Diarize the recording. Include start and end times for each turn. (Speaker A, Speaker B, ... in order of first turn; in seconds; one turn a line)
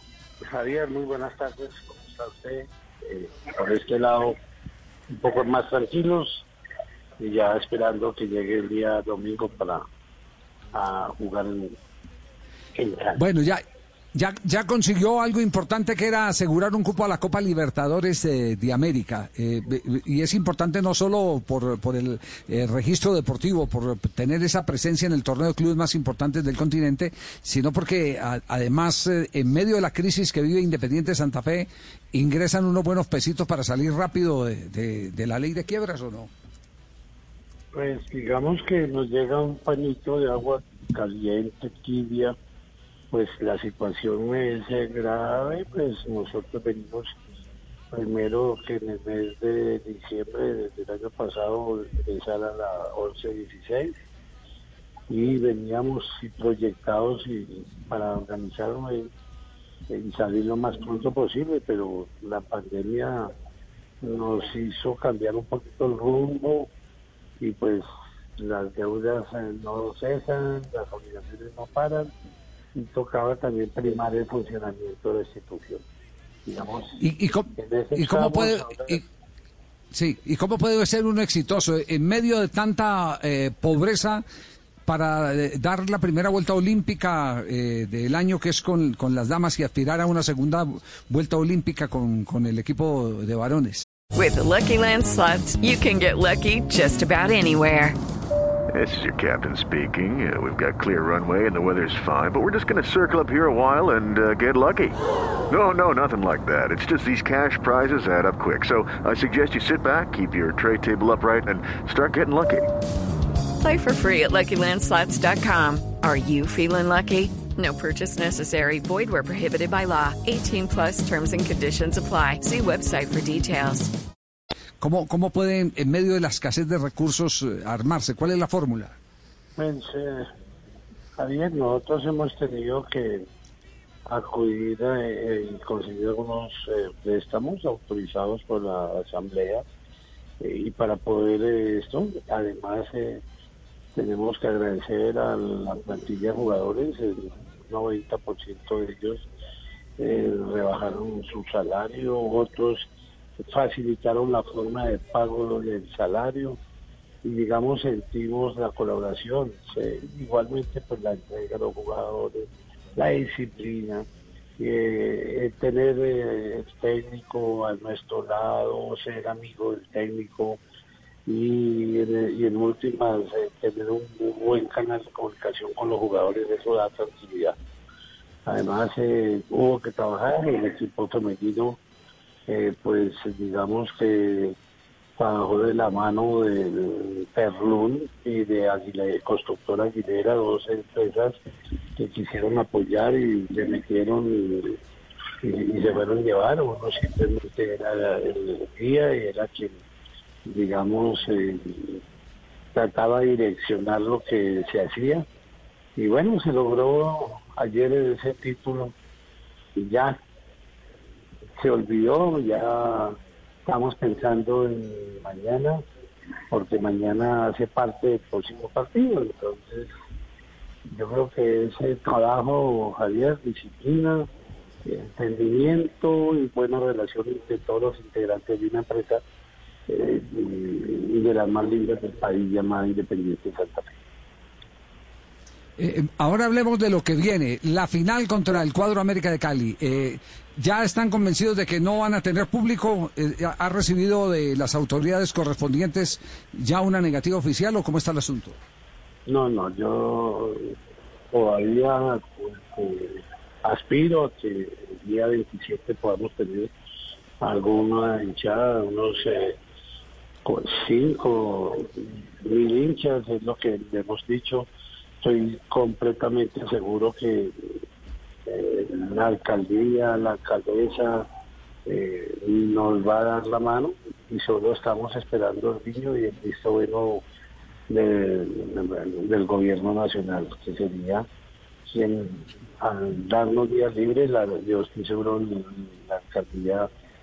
Speaker A: 0.5-4.3
Speaker A: 5.1-6.5
Speaker A: 7.2-9.8
Speaker A: 10.7-11.7
Speaker A: 12.8-13.2
Speaker B: 13.2-13.6
Speaker B: 14.1-36.3
Speaker A: 37.7-42.3
Speaker A: 43.1-47.1
Speaker A: 47.9-54.0
Speaker A: 55.1-59.1
Speaker A: 59.9-63.3
Speaker A: 64.0-66.7
Speaker A: 67.4-67.8
Speaker A: 68.4-72.1
Speaker A: 72.7-75.8
Speaker A: 76.5-77.0
Speaker B: 77.0-79.0
Speaker A: 77.5-79.0
Speaker B: 79.9-84.2
Speaker B: 84.9-93.8
Speaker C: 94.1-98.0
Speaker D: 98.7-112.7
Speaker C: 113.6-123.9
Speaker B: 124.8-128.9
Speaker A: 129.6-130.2
Speaker A: 131.2-133.2
Speaker A: 134.1-139.6
Speaker A: 140.4-143.2
Speaker A: 143.9-149.3
Speaker A: 150.0-152.8
Speaker A: 153.4-156.6
Speaker A: 157.2-164.0
Speaker A: 164.6-170.6
Speaker A: 171.3-177.5
Speaker A: 178.4-181.8
Speaker A: 182.5-184.5
Speaker A: 185.2-191.3
Speaker A: 192.0-194.8
Speaker A: 195.4-199.8
Speaker A: 200.4-202.0
Speaker A: 202.7-205.2
Speaker A: 206.0-208.9
Speaker A: 209.8-210.2
Speaker A: 211.6-213.1
Speaker A: 213.7-215.8
Speaker A: 216.5-219.9
Speaker A: 220.9-224.3
Speaker A: 224.8-229.2
Speaker A: 229.9-233.9
Speaker B: 235.8-248.6
Speaker A: 249.2-250.7
Speaker A: 251.3-256.7
Speaker A: 257.4-259.6
Speaker A: 260.4-261.9
Speaker A: 262.4-264.7
Speaker A: 265.2-267.5
Speaker A: 268.5-271.2
Speaker A: 271.9-277.2
Speaker A: 277.9-281.2
Speaker A: 281.9-286.9